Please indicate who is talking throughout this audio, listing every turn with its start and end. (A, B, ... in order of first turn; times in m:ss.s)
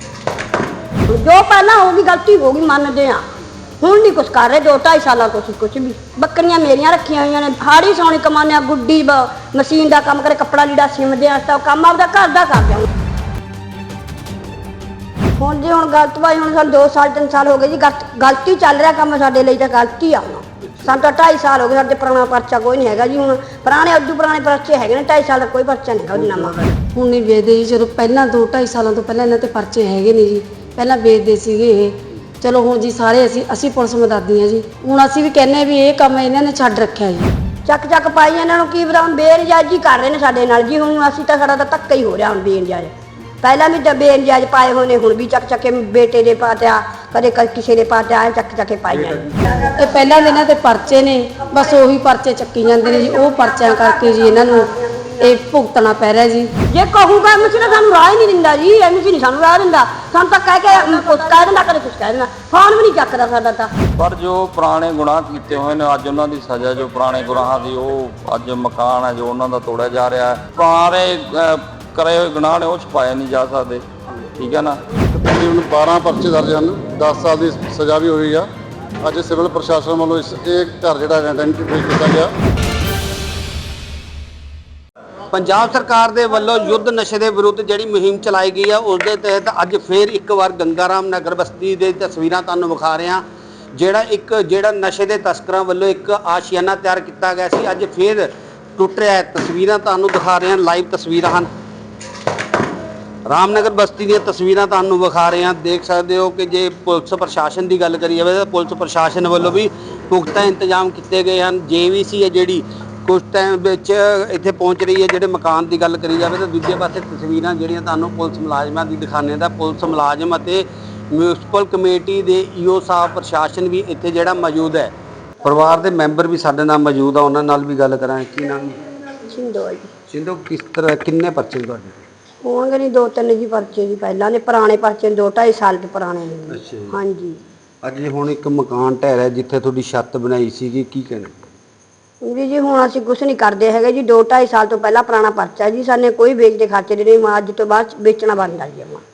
0:01.1-0:03.2 A
0:03.8-0:12.9 A
0:15.4-0:26.5 A
0:20.6-0:21.0 B
0:26.1-0:26.8 B
0:26.9-0:37.3 C
0:37.7-0:50.4 A
0:48.9-0:49.8 B
0:49.8-0:54.7 C
0:52.6-0:55.3 A
0:55.2-0:56.5 C
0:56.7-1:03.7 A
1:04.0-1:13.8 D
1:14.4-1:14.8 D
1:15.1-1:18.5 E
1:19.0-1:22.3 E
1:25.3-1:33.2 B
1:33.7-1:41.5 B
1:43.3-2:08.8 B
2:09.3-2:09.9 A
2:10.1-2:12.0 B
2:12.4-2:17.4 A
2:16.5-2:16.9 B
2:17.8-2:21.3 B
2:22.2-2:29.0 A